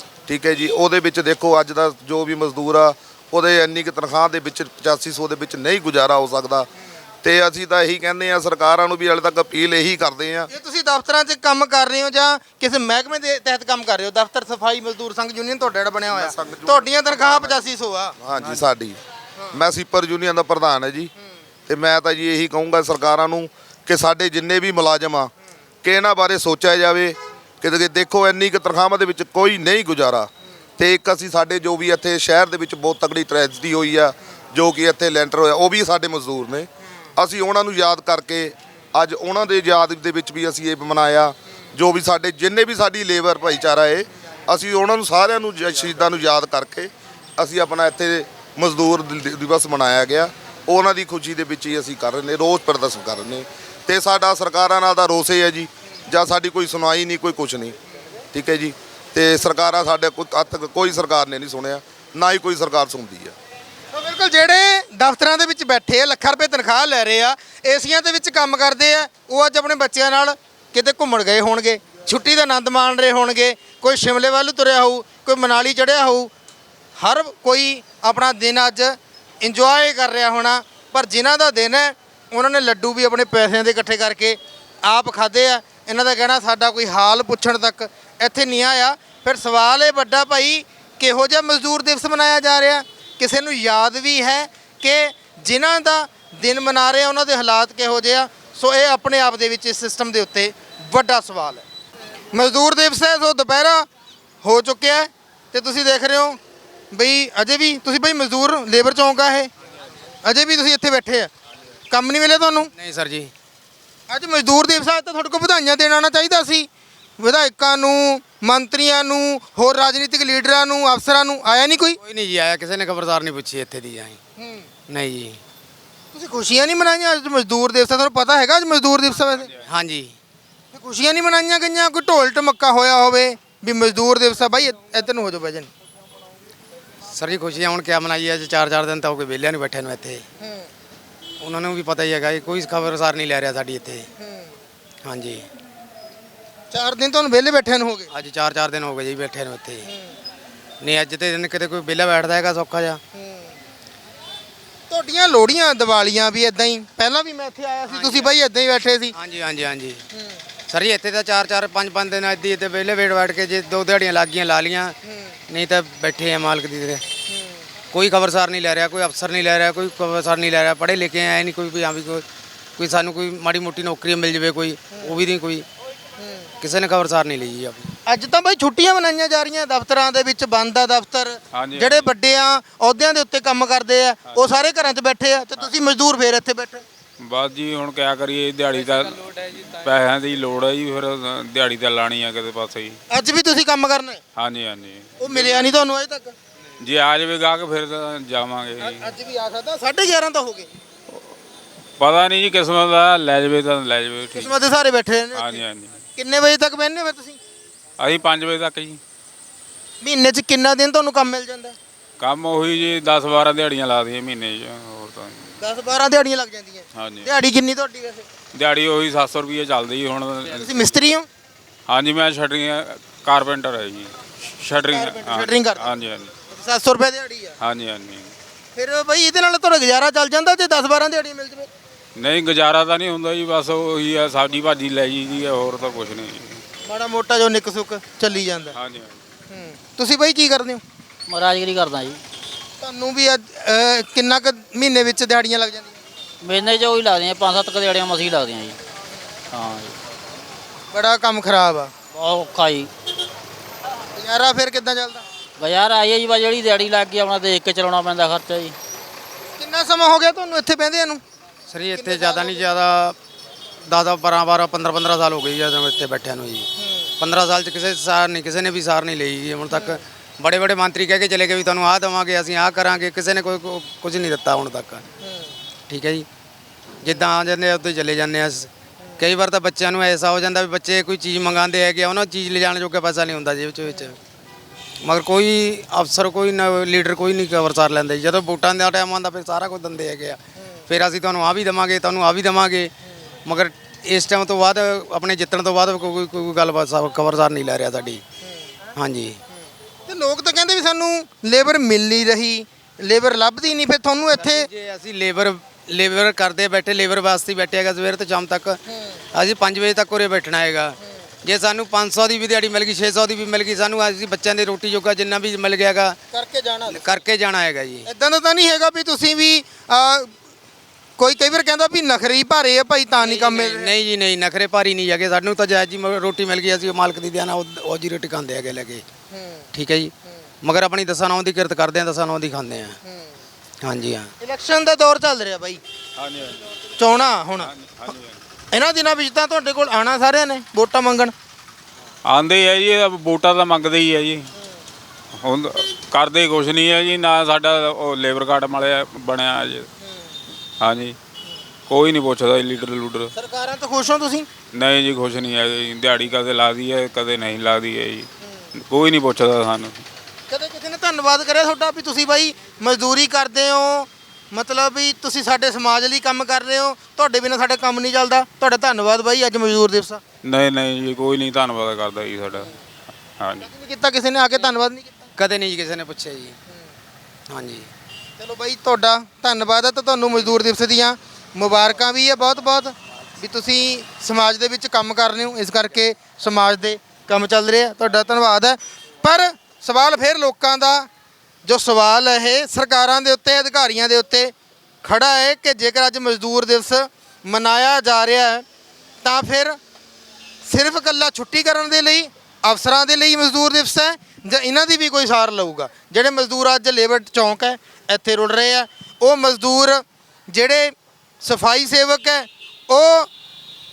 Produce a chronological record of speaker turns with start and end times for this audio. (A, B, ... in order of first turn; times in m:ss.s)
0:00.3-0:06.7 A
0:07.2-0:10.5 A
0:10.5-0:18.1 B
0:16.1-0:17.6 A
0:18.2-0:19.0 A
0:19.5-0:21.1 A
0:21.7-0:25.3 A
0:25.8-0:57.7 A
0:58.3-1:03.3 A
1:03.9-1:16.3 B
1:17.0-1:41.6 B
1:42.3-1:43.8 B
1:44.4-1:46.4 B
1:46.9-1:49.5 B
1:50.2-1:51.3 B
1:51.9-1:52.7 B
1:52.7-1:53.3 C
1:54.1-1:56.7 B
1:57.2-2:02.0 B
2:02.0-2:04.2 C
2:04.4-2:04.7 B
2:04.9-2:05.4 C
2:06.1-2:09.5 B
2:09.6-2:10.1 C
2:10.7-2:15.7 B
2:17.1-2:20.2 C
2:20.4-2:20.7 B
2:21.4-2:24.1 C
2:24.2-2:24.5 B
2:25.0-2:25.4 C
2:26.7-2:28.1 B
2:28.1-2:29.8 C
2:29.8-2:30.1 B
2:30.8-2:33.0 C
2:33.1-2:33.5 B
2:34.9-2:39.2 B
2:37.9-2:38.4 C
2:39.1-2:40.0 C
2:40.1-2:40.4 B
2:40.7-2:45.0 C
2:45.5-2:47.0 C
2:47.4-2:47.6 B
2:47.9-2:52.2 C
2:52.8-2:55.6 C
2:56.6-2:57.9 C
2:58.0-3:06.8 B
3:01.5-3:02.1 D
3:07.3-3:13.0 D
3:13.1-3:14.2 B
3:14.4-3:15.7 D
3:15.2-3:16.3 B
3:16.8-3:19.1 D
3:18.8-3:20.7 B
3:22.0-3:24.5 D
3:24.3-3:25.6 B
3:25.3-3:26.0 D
3:26.2-3:27.4 B
3:28.0-3:29.0 D
3:30.0-3:31.8 B
3:32.2-3:35.4 D
3:35.6-3:38.2 B
3:37.0-3:37.3 D
3:38.5-3:41.0 D
3:40.4-3:41.2 B
3:41.9-3:46.3 D
3:44.9-3:45.9 B
3:46.5-3:47.6 B
3:47.6-3:48.3 D
3:48.7-3:51.7 B
3:52.2-3:56.6 D
3:56.8-3:58.8 B
3:58.7-3:59.1 D
3:59.5-4:00.8 B
4:01.3-4:02.2 E
4:02.8-4:05.9 B
4:06.4-4:08.8 E
4:09.5-4:09.9 E
4:10.9-4:11.9 B
4:12.1-4:12.9 E
4:14.2-4:15.2 B
4:15.6-4:18.7 E
4:19.6-4:21.2 B
4:21.7-4:23.2 C
4:21.9-4:22.7 B
4:23.9-4:26.7 C
4:26.8-4:27.1 B
4:27.2-4:35.0 C
4:29.7-4:30.0 B
4:35.3-4:35.5 B
4:35.9-4:36.3 C
4:37.0-4:44.2 C
4:45.0-4:52.9 C
4:53.4-4:58.2 C
4:59.0-4:59.4 C
5:00.1-5:04.7 B
5:04.3-5:08.8 C
5:09.3-5:16.2 C
5:16.3-5:17.1 B
5:16.9-5:18.1 C
5:18.0-5:20.3 B
5:21.2-5:23.9 B
5:23.2-5:29.0 C
5:29.3-5:29.6 B
5:29.7-5:33.0 C
5:33.8-5:34.3 C
5:34.4-5:35.8 B
5:36.2-5:36.6 D
5:37.0-5:37.7 B
5:37.6-5:38.4 D
5:38.7-5:41.3 B
5:42.3-5:44.5 D
5:45.4-5:49.9 D
5:50.8-5:51.2 D
5:51.9-5:53.3 D
5:53.3-5:54.5 B
5:54.7-5:58.3 D
5:58.9-6:00.0 D
6:00.5-6:10.2 B
6:10.4-6:12.7 D
6:13.4-6:13.7 D
6:13.6-6:15.2 B
6:15.4-6:16.5 C
6:17.5-6:17.9 C
6:18.4-6:31.1 B
6:31.6-6:38.6 B
6:39.2-6:39.8 B
6:40.6-6:53.3 B